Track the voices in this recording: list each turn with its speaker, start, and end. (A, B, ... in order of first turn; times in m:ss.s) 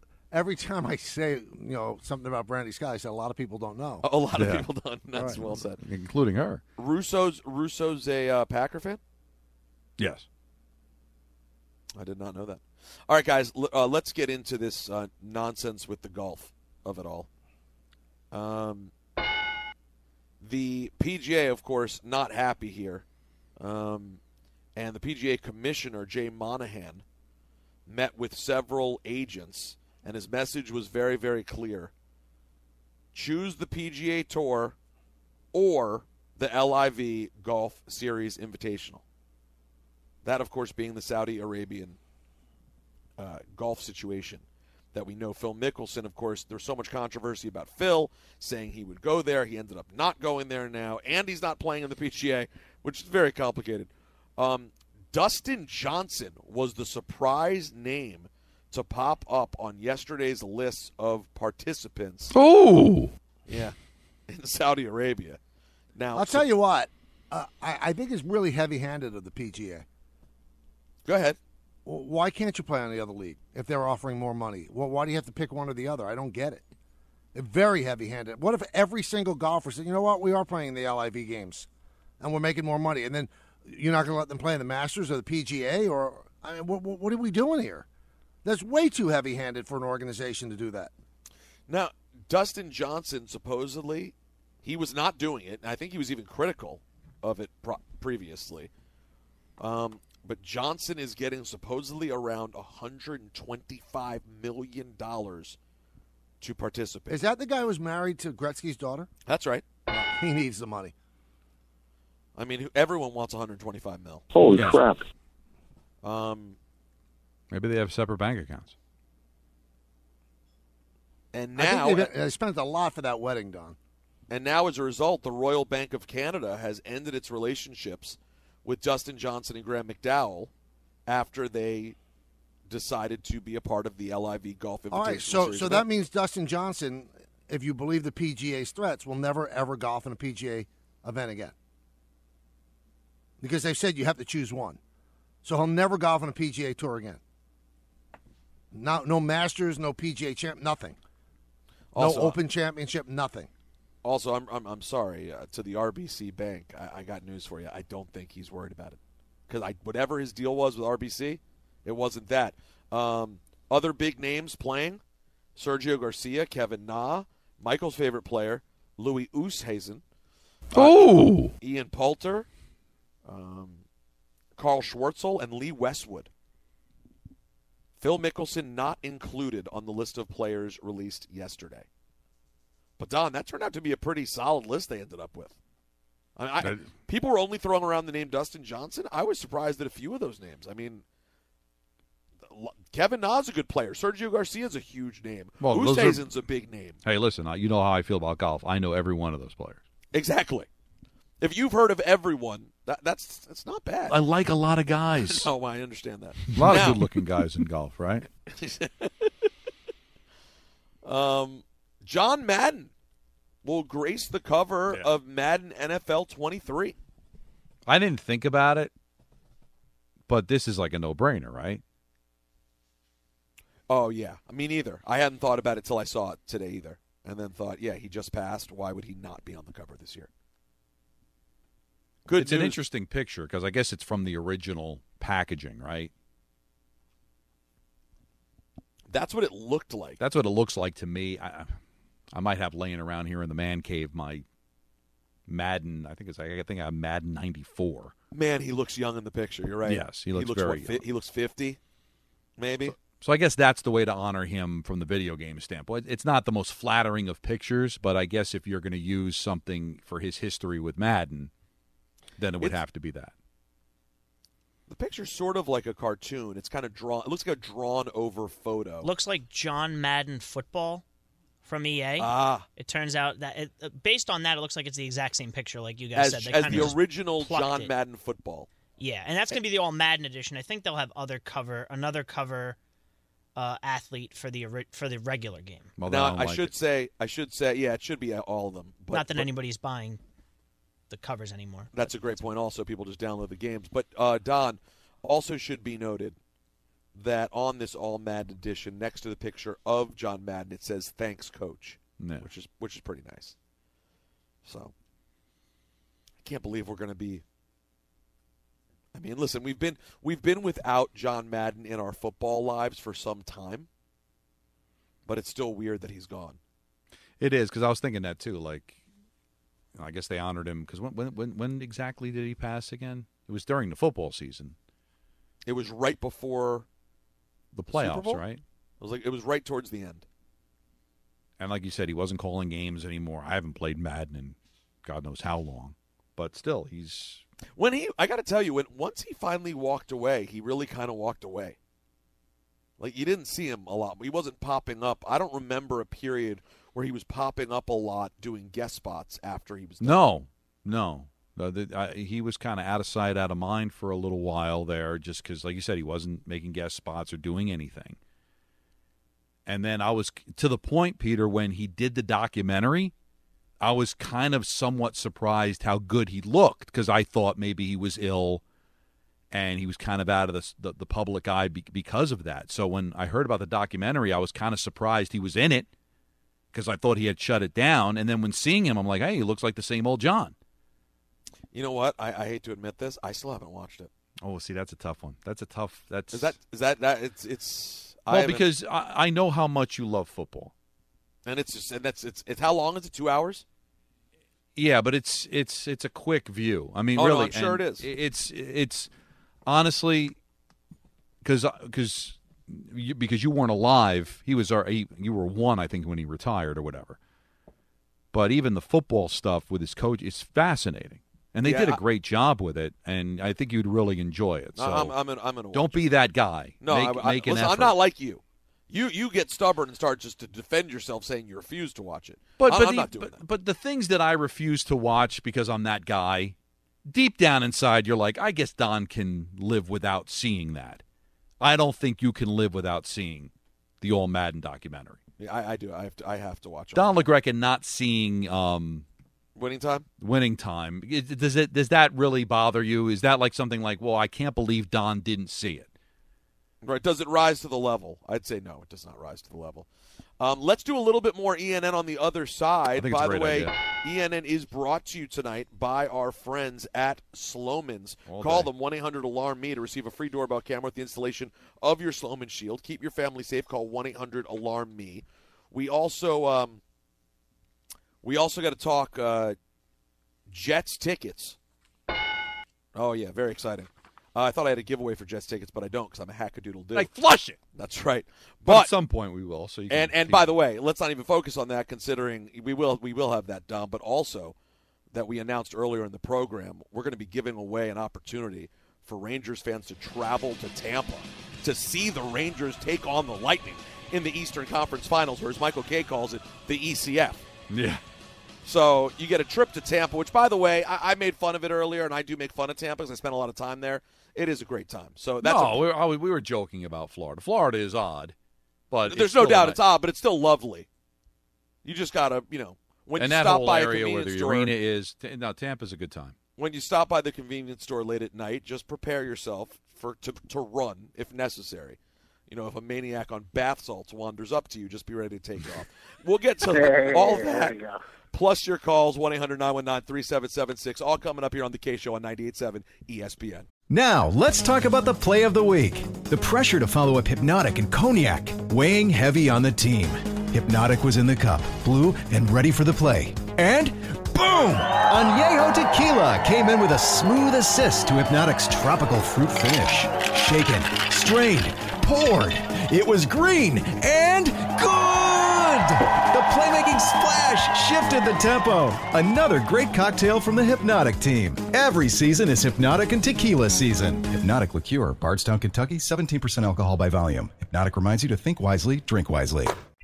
0:00.3-0:04.0 A
0:04.0-0:05.8 B
0:04.3-0:04.7 C
0:05.8-0:06.6 C
0:06.8-0:09.0 B
0:10.0-0:10.2 C
0:12.0-0:17.3 B
0:18.3-0:18.9 B
0:20.4-0:23.0 B
0:23.6-0:24.2 B
0:24.8-0:27.0 B
0:27.9-0:31.9 B
0:33.1-0:34.7 B
0:35.5-0:39.0 B
0:40.2-0:42.0 B
0:43.2-1:02.3 B
1:02.3-1:03.1 C
1:03.5-1:03.7 B
1:04.3-1:05.4 B
1:05.9-1:06.4 B
1:06.1-1:09.8 A
1:11.0-1:11.4 B
1:11.8-1:16.6 A
1:17.3-1:21.7 A
1:22.2-1:27.8 A
1:28.4-1:30.9 A
1:31.7-1:38.7 B
1:39.6-1:45.6 B
1:46.4-1:47.2 B
1:47.1-1:49.1 A
1:49.2-1:49.6 B
1:49.9-1:50.9 A
1:52.4-1:54.2 B
1:54.5-1:54.8 C
1:56.0-1:56.6 B
1:57.5-1:58.7 C
2:01.3-2:02.1 B
2:01.6-2:03.8 A
2:04.3-2:10.5 B
2:11.1-2:12.0 B
2:12.7-2:15.8 B
2:14.9-2:21.5 A
2:23.4-2:24.8 A
2:25.4-2:27.2 A
2:28.7-2:31.0 A
2:31.9-2:32.4 B
2:32.0-2:33.5 A
2:34.0-2:45.0 B
2:45.6-2:50.0 B
2:50.7-2:52.5 B
2:50.7-2:51.5 C
2:53.2-2:53.8 B
2:54.6-2:56.3 B
2:58.0-3:01.9 B
3:03.0-3:05.6 B
3:06.4-3:11.0 B
3:12.4-3:17.0 B
3:15.6-3:16.2 C
3:17.0-3:19.8 C
3:20.1-3:20.7 B
3:21.4-3:24.2 B
3:24.1-3:25.5 C
3:25.2-3:27.2 B
3:26.5-3:28.3 C
3:28.5-3:29.5 B
3:31.0-3:32.9 B
3:33.6-3:37.0 B
3:37.9-3:38.9 C
3:40.3-3:41.8 C
3:43.9-3:50.3 B
3:52.3-3:52.8 B
3:52.4-3:56.1 C
3:59.1-4:00.2 B
4:00.2-4:01.7 C
4:02.3-4:04.4 C
4:05.5-4:08.1 C
4:08.3-4:11.8 B
4:09.8-4:11.0 C
4:12.6-4:12.9 B
4:12.9-4:21.5 C
4:22.4-4:23.3 C
4:24.9-4:29.1 B
4:29.0-4:31.0 D
4:31.6-4:37.9 D
4:32.2-4:32.6 B
4:36.1-4:38.7 B
4:36.7-4:36.9 C
4:39.0-4:42.8 D
4:43.6-4:45.9 D
4:46.0-4:46.7 C
4:46.0-4:49.5 B
4:49.1-4:50.2 D
4:51.1-4:51.9 D
4:51.9-4:56.4 B
4:57.1-5:03.5 B
5:02.2-5:02.5 C
5:04.6-5:04.9 B
5:06.4-5:07.4 B
5:09.1-5:13.9 B
5:15.2-5:16.6 B
5:17.4-5:19.0 C
5:19.9-5:24.8 C
5:25.6-5:26.8 B
5:27.7-5:28.6 C
5:27.9-5:28.4 B
5:29.0-5:30.2 B
5:31.6-5:37.4 C
5:37.8-5:41.8 B
5:43.0-5:50.2 B
5:50.0-5:58.2 C
5:59.6-6:03.1 C
6:03.8-6:08.6 C
6:09.5-6:15.9 C
6:16.7-6:20.5 C
6:21.7-6:24.1 B
6:24.4-6:26.5 C
6:26.3-6:28.6 B
6:28.3-6:30.7 C
6:31.4-6:33.6 B
6:34.7-6:39.1 C
6:37.1-6:38.1 B
6:39.6-6:40.4 C
6:41.4-6:47.2 C
6:48.3-6:55.2 C
6:51.6-6:52.0 B
6:54.8-6:56.1 B
6:55.7-6:58.0 C
6:56.8-7:03.4 B
7:02.6-7:06.5 C
7:07.0-7:11.0 C
7:11.6-7:15.2 C
7:15.4-7:17.2 B
7:16.9-7:19.0 C
7:19.6-7:20.0 B
7:20.2-7:25.9 C
7:26.8-7:29.9 B
7:30.4-7:46.8 B
7:33.0-7:33.7 C
7:38.2-7:38.7 C
7:48.2-7:49.6 B
7:50.5-7:51.6 B
7:52.9-7:57.1 B
7:56.9-7:57.6 C
7:57.7-7:58.9 B
7:58.6-8:00.5 C
7:59.9-8:04.5 B
8:05.1-8:17.4 B
8:17.7-8:18.0 C
8:18.6-8:25.8 B
8:25.4-8:28.3 C
8:28.9-8:29.8 C
8:29.1-8:30.9 B
8:31.8-8:34.7 B
8:33.2-8:36.3 C
8:36.6-8:53.7 B
8:53.9-9:29.7 E